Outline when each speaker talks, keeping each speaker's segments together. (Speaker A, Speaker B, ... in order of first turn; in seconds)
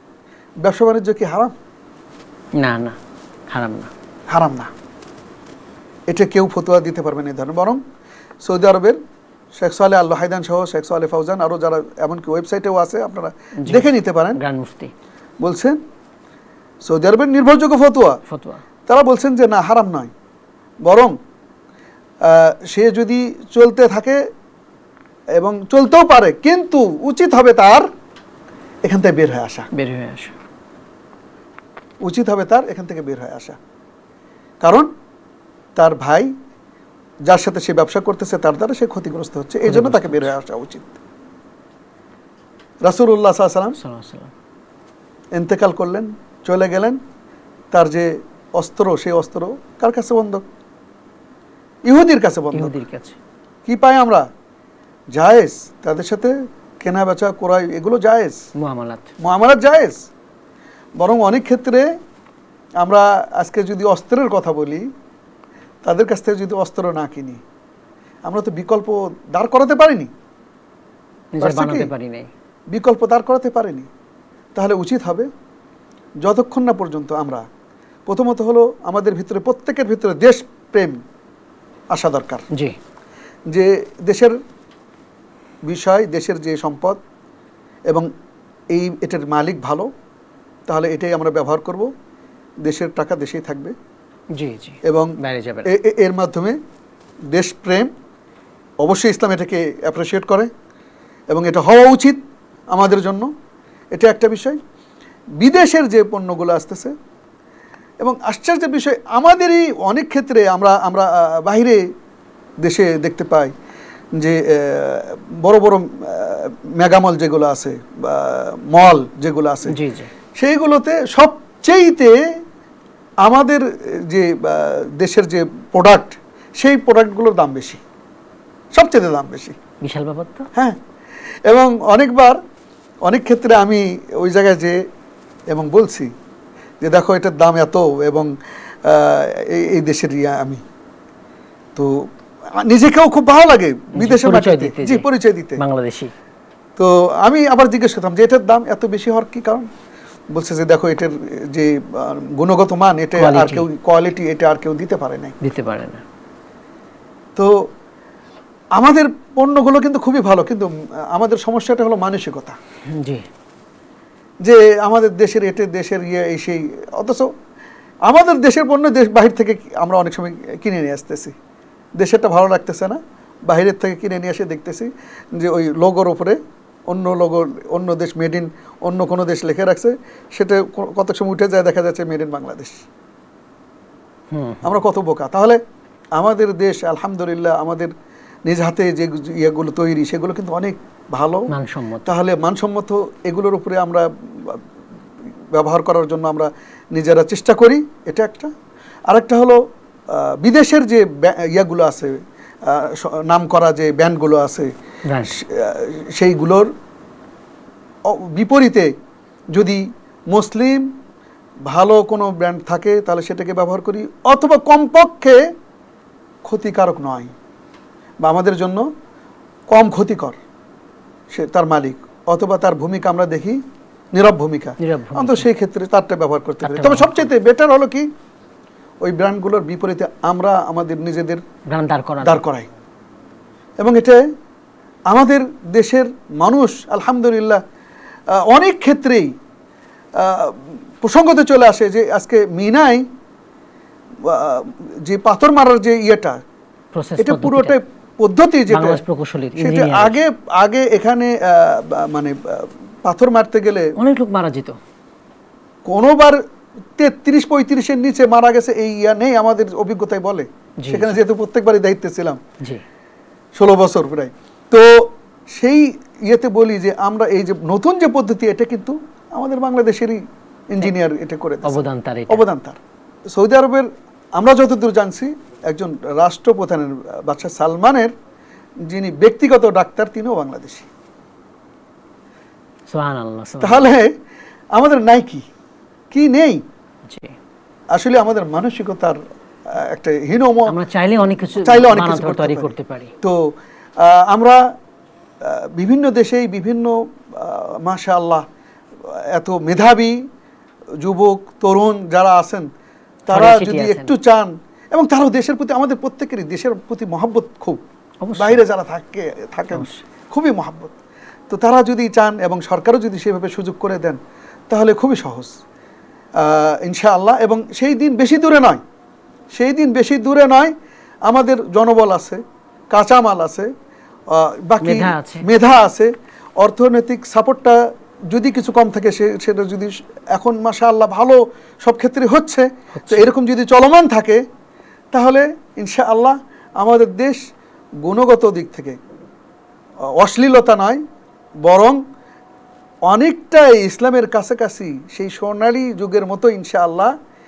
Speaker A: 0.6-1.5, 4.3-4.7, 6.1-7.8, 8.4-9.0, 9.6-14.4, 15.4-15.8, 16.8-18.2, 18.9-20.1, 20.9-21.1, 22.2-24.2, 25.4-27.9, 28.9-29.7, 32.0-33.6, 34.6-34.9, 35.8-36.3, 37.3-41.0, 42.9-43.8, 45.4-47.0, 47.7-50.4, 51.9-52.7, 53.6-54.3, 55.1-58.4, 59.2-60.1, 61.0-61.9, 62.8-64.9, 65.8-67.4, 68.3-70.1, 71.4-71.9, 72.7-73.9, 74.6-75.3, 76.2-77.5, 78.1-81.0, 81.9-82.5, 83.5-84.4, 85.7-87.0, 88.7-89.9, 90.7-91.9, 92.6-93.8, 94.8-95.1, 95.7-96.6, 97.3-97.9, 98.8-100.5, 101.3-102.2, 102.7-103.3, 103.9-104.6, 105.4-107.0, 108.0-111.8, 112.6-113.5, 114.2-119.8, 120.4-122.2, 123.2-127.8, 128.7-129.6, 131.5-132.4, 133.1-134.8, 135.5-136.1, 136.8-138.3, 138.8-140.6, 141.8-142.1, 142.6-145.6, 146.8-149.7, 150.3-155.4, 158.8-162.6, 164.4-167.3, 168.1-171.3, 172.0-182.8, 184.6-185.6, 186.2-187.9, 188.5-191.5, 192.1-194.6, 195.5-198.5, 199.1-199.6, 200.1-204.7, 205.3-206.7, 208.1-208.9, 209.5-210.9, 211.7-215.5, 216.4-217.3, 218.2-218.9, 219.7-220.4, 221.3-223.6, 224.1-228.1, 229.0-231.4, 232.2-232.7, 233.8-234.2, 235.1-237.6, 238.3-239.3, 240.2-243.1, 244.2-246.4, 247.2-249.0, 249.6-253.9, 255.9-256.4, 257.0-262.4, 263.6-272.8, 273.3-278.1, 278.9-280.9, 283.6-284.1, 284.8-285.4, 286.1-286.6, 287.9-290.7, 291.5-294.6, 295.4-298.4, 299.0-300.2, 301.0-302.7, 303.3-307.8, 308.4-310.9, 311.5-314.2, 314.7-315.5, 316.4-318.8, 319.5-320.7, 321.3-322.4, 322.9-323.7, 324.3-334.4, 335.1-337.4, 338.0-339.0, 340.2-341.0, 341.6-342.0, 343.1-347.1
Speaker B: 2.6-3.0, 3.5-3.9, 13.6-14.9, 18.3-18.6, 29.7-30.4, 39.6-40.3, 43.8-44.3, 52.5-53.2, 58.6-59.1, 71.3-72.3, 82.5-82.8, 94.4-95.7, 119.7-120.1, 129.8-130.5, 143.9-146.1, 153.2-153.7, 155.4-156.0, 162.9-163.2, 184.3-184.7, 191.5-192.1, 205.1-205.4, 224.8-225.5, 226.6-227.3, 231.7-232.4, 246.9-247.8, 248.7-250.2, 254.0-254.8, 260.8-261.2, 271.6-272.4, 282.9-283.9, 287.1-287.4, 290.7-293.1, 303.3-304.1, 308.2-308.6, 309.7-310.0, 324.8-325.5, 333.0-333.3